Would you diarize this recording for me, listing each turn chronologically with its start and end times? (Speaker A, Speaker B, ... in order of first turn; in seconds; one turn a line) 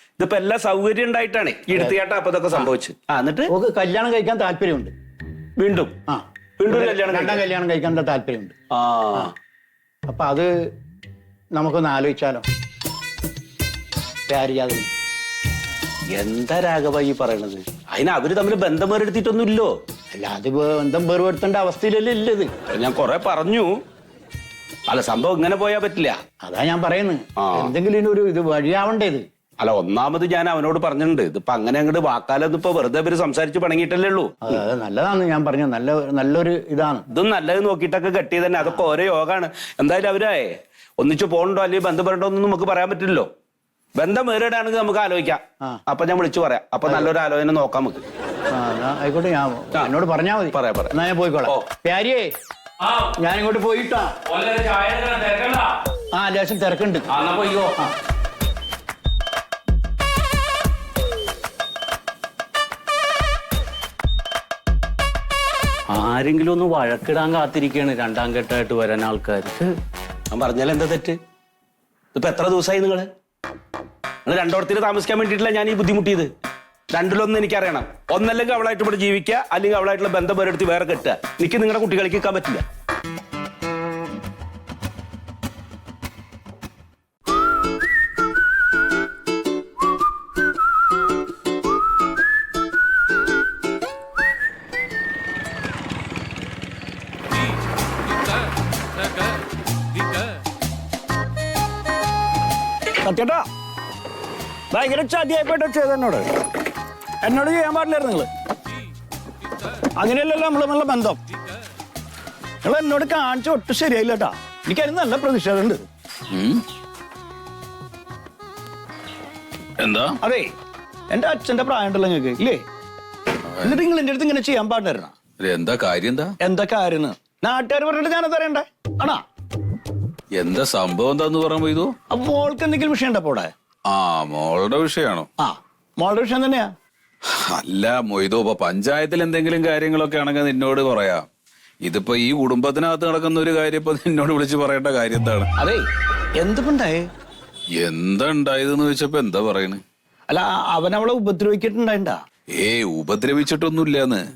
Speaker A: 0.2-3.5
Speaker B: 3.5-4.9
Speaker A: 5.6-5.9
Speaker B: 6.1-8.5
Speaker A: 6.6-7.4
Speaker A: 8.7-9.3
Speaker B: 10.1-10.5
Speaker B: 11.6-12.4
Speaker B: 14.3-14.9
Speaker A: 16.1-19.7
Speaker B: 20.1-22.5
Speaker A: 22.7-23.8
Speaker A: 24.9-26.2
Speaker B: 26.4-29.2
Speaker A: 27.4-27.7
Speaker A: 29.6-34.5
Speaker B: 34.4-37.1
Speaker A: 37.1-43.3
Speaker A: 44.0-48.0
Speaker B: 48.5-52.3
Speaker A: 50.5-51.0
Speaker C: 52.8-53.1
Speaker B: 53.2-54.1
Speaker C: 54.2-55.7
Speaker B: 56.1-57.1
Speaker C: 57.1-57.9
Speaker C: 65.9-69.7
Speaker A: 70.3-71.2
Speaker A: 72.2-73.1
Speaker A: 74.3-76.3
Speaker A: 76.9-82.6
Speaker D: 103.0-103.5
Speaker D: 104.7-106.3
Speaker D: 107.2-108.3
Speaker D: 109.7-111.2
Speaker D: 112.6-115.9
Speaker E: 116.3-116.6
Speaker E: 119.8-120.2
Speaker D: 120.2-120.5
Speaker D: 121.1-122.6
Speaker E: 123.5-123.8
Speaker D: 123.6-125.2
Speaker E: 125.4-126.3
Speaker D: 126.4-129.2
Speaker E: 130.3-131.9
Speaker D: 132.1-133.5
Speaker E: 133.9-135.3
Speaker D: 135.4-136.7
Speaker E: 137.6-141.3
Speaker E: 141.8-145.5
Speaker D: 145.6-145.9
Speaker D: 146.4-147.1
Speaker E: 147.8-149.8
Speaker D: 150.3-152.2
Speaker E: 152.5-154.2